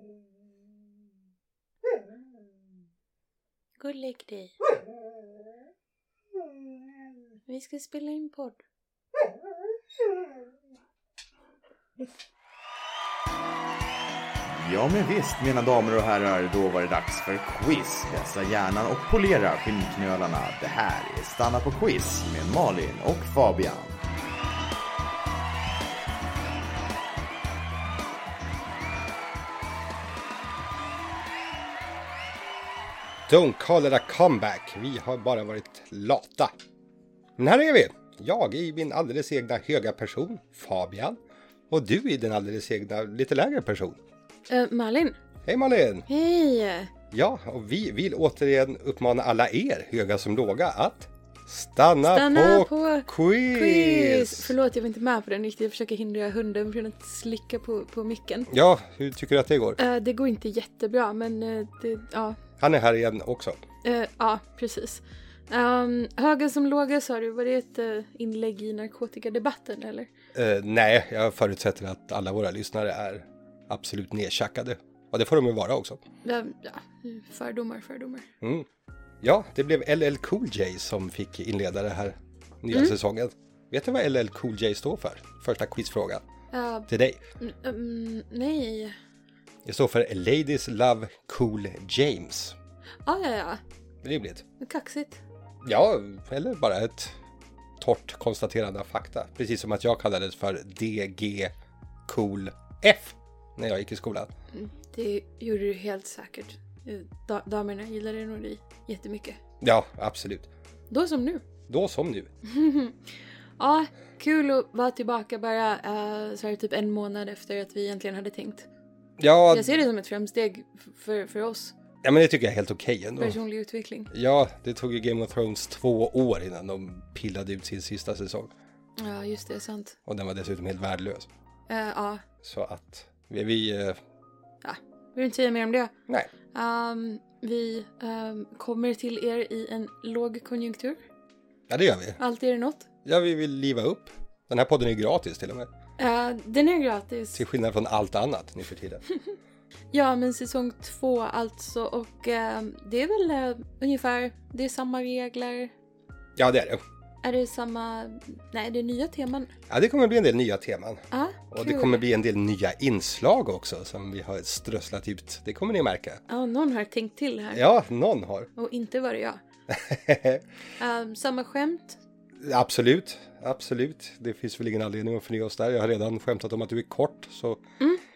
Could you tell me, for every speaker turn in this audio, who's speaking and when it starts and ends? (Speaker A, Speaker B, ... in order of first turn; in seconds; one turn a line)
Speaker A: 3.8-4.5
Speaker A: 7.5-8.6
Speaker B: 14.5-24.0
Speaker C: 33.3-36.5
Speaker C: 37.4-44.0
Speaker A: 44.5-45.2
Speaker C: 45.5-46.1
Speaker A: 46.1-46.9
Speaker C: 47.1-54.5
Speaker A: 52.0-58.5
Speaker C: 58.5-59.8
Speaker A: 59.8-62.4
Speaker C: 62.6-63.6
Speaker A: 63.8-70.1
Speaker C: 70.3-76.0
Speaker A: 76.2-78.3
Speaker C: 78.4-78.7
Speaker C: 79.2-86.2
Speaker A: 86.5-86.9
Speaker C: 86.9-87.2
Speaker A: 87.4-89.0
Speaker C: 89.7-92.6
Speaker A: 93.1-93.6
Speaker C: 94.0-94.4
Speaker A: 94.6-95.2
Speaker C: 95.6-97.2
Speaker C: 97.8-101.5
Speaker C: 102.1-104.3
Speaker A: 104.5-109.4
Speaker C: 109.6-110.5
Speaker A: 110.9-111.4
Speaker C: 111.7-112.3
Speaker A: 112.5-113.0
Speaker A: 113.6-118.7
Speaker C: 119.2-119.7
Speaker A: 119.5-121.8
Speaker C: 122.0-123.4
Speaker A: 123.2-124.1
Speaker C: 124.1-128.5
Speaker A: 129.0-130.0
Speaker C: 130.1-131.3
Speaker A: 131.7-132.2
Speaker C: 132.4-134.0
Speaker A: 134.6-135.9
Speaker A: 136.5-141.0
Speaker C: 141.7-142.2
Speaker A: 142.2-142.9
Speaker C: 143.1-145.7
Speaker A: 146.0-147.4
Speaker C: 147.3-149.0
Speaker A: 149.9-155.7
Speaker C: 156.4-156.8
Speaker A: 157.2-159.5
Speaker C: 159.7-166.2
Speaker A: 161.1-162.0
Speaker A: 166.3-167.7
Speaker C: 167.5-168.5
Speaker A: 168.6-169.4
Speaker C: 169.7-170.4
Speaker A: 170.8-172.0
Speaker C: 172.4-177.6